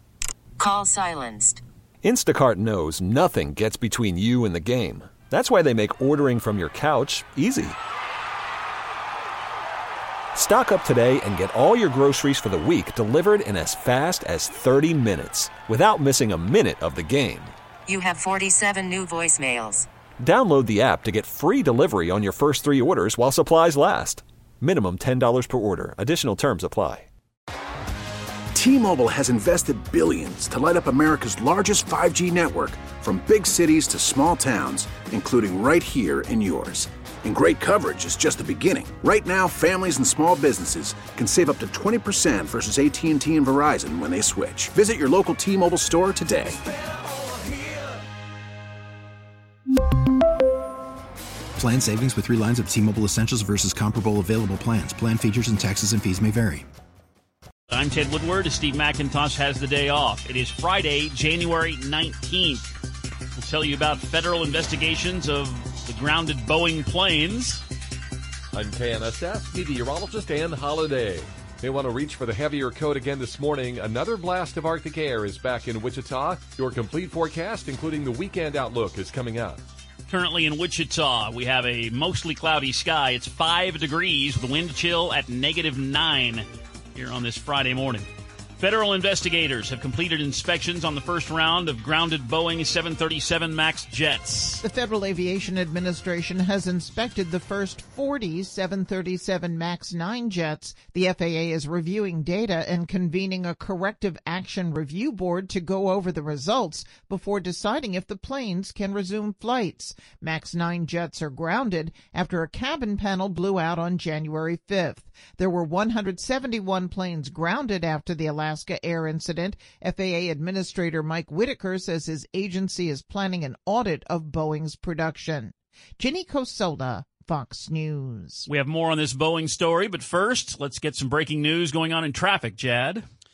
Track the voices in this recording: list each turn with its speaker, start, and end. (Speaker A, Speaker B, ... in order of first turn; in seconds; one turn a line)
Speaker A: 0.6-1.6
Speaker B: 2.0-7.8
Speaker B: 10.3-17.5
Speaker A: 17.9-19.9
Speaker B: 20.2-27.1
Speaker C: 28.6-46.6
Speaker D: 51.5-56.7
Speaker E: 57.7-62.7
Speaker E: 63.4-67.6
Speaker F: 68.5-79.6
Speaker E: 80.1-88.1
Speaker E: 88.6-94.6
Speaker G: 94.6-128.5
Speaker E: 128.5-133.1